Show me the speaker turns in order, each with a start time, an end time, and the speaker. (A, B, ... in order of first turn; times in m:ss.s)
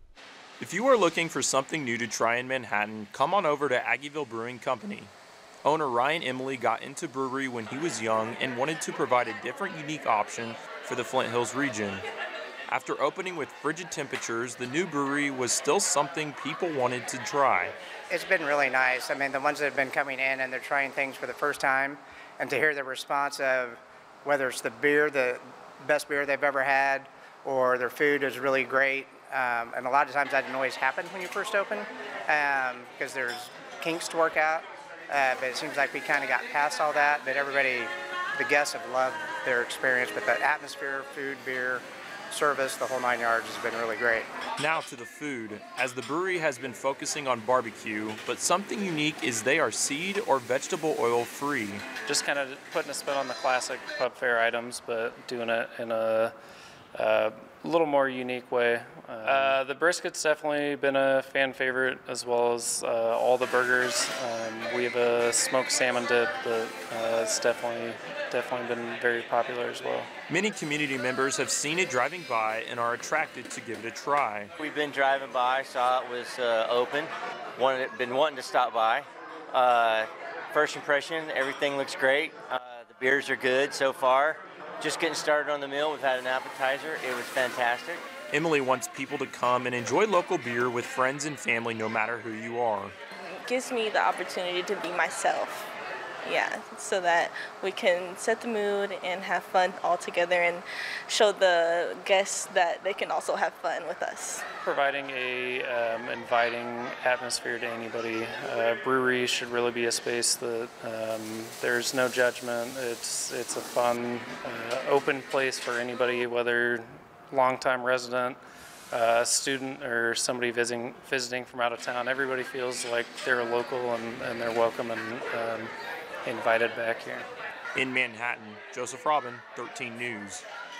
0:00.6-0:05.1 A
0:05.6-0:12.0 A
0:12.7-0:17.7 A
0:18.1-0:44.3 B
0:44.6-0:51.8 A
0:52.0-0:56.3 C
0:56.9-1:10.1 C
1:10.3-1:14.5 A
1:14.6-1:28.0 D
1:28.3-1:32.9 A
1:33.4-1:35.6 E
1:36.2-1:44.4 E
1:44.6-1:58.4 C
1:58.9-2:05.7 C
2:06.2-2:07.2 C
2:07.7-2:10.4 A